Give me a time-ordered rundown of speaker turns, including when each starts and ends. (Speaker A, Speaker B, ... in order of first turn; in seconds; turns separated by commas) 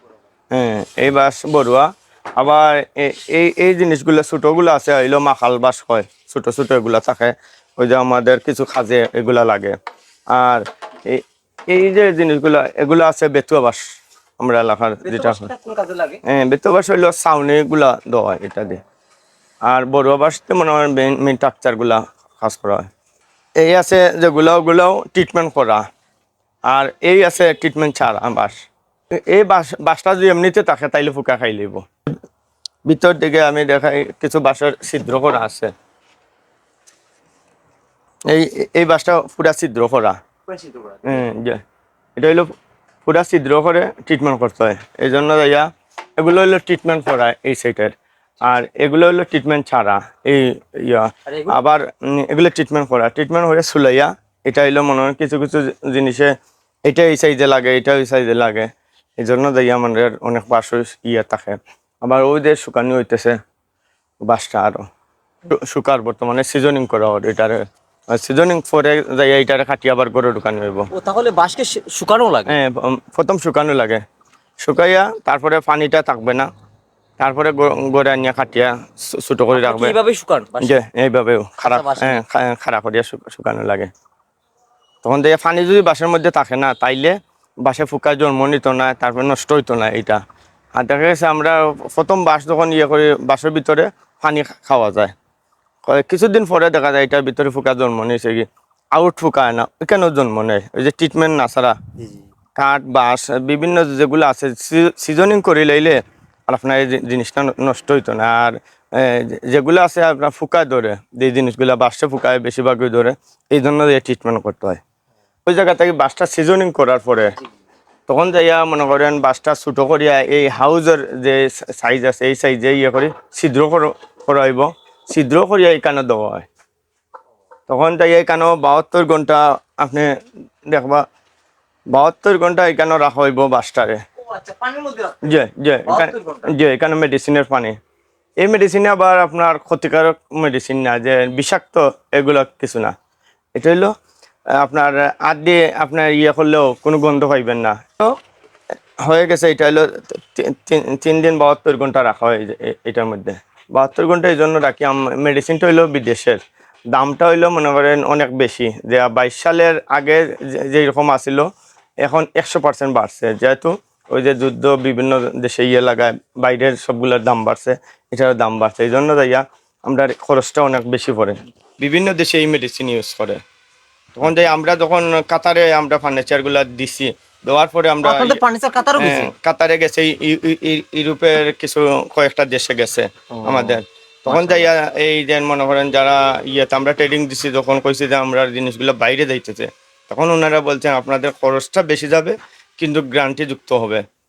Speaker A: 0.5-9.8, Speaker A: 10.3-13.8, Speaker A: 14.4-15.5, Speaker B: 15.1-16.2, Speaker A: 16.2-18.8, Speaker A: 19.7-22.9, Speaker A: 23.6-25.8, Speaker A: 26.7-28.6, Speaker A: 29.3-31.9, Speaker A: 32.9-35.7, Speaker A: 38.3-40.2, Speaker A: 41.0-41.6, Speaker A: 42.2-42.5, Speaker A: 43.0-56.3, Speaker B: 51.3-51.5, Speaker A: 56.9-63.4, Speaker A: 64.2-64.9, Speaker A: 65.5-70.9, Speaker B: 70.9-72.5, Speaker A: 72.5-74.0, Speaker A: 74.6-76.5, Speaker A: 77.2-80.0, Speaker B: 79.5-80.8, Speaker A: 80.6-83.9, Speaker B: 81.6-82.2, Speaker A: 85.0-90.2, Speaker A: 90.8-95.1, Speaker A: 95.9-101.8, Speaker A: 102.6-114.8, Speaker A: 115.5-117.3, Speaker A: 118.1-126.5, Speaker A: 127.7-130.1, Speaker A: 130.7-131.0, Speaker A: 131.9-134.0, Speaker B: 134.3-135.2, Speaker A: 135.2-137.8, Speaker B: 135.9-136.5, Speaker A: 138.4-142.9, Speaker A: 143.6-143.9, Speaker A: 144.6-148.2, Speaker A: 149.1-156.4, Speaker A: 156.9-161.5, Speaker A: 162.0-173.4, Speaker A: 174.2-178.4, Speaker B: 178.0-179.3, Speaker A: 179.0-194.0, Speaker B: 183.4-184.7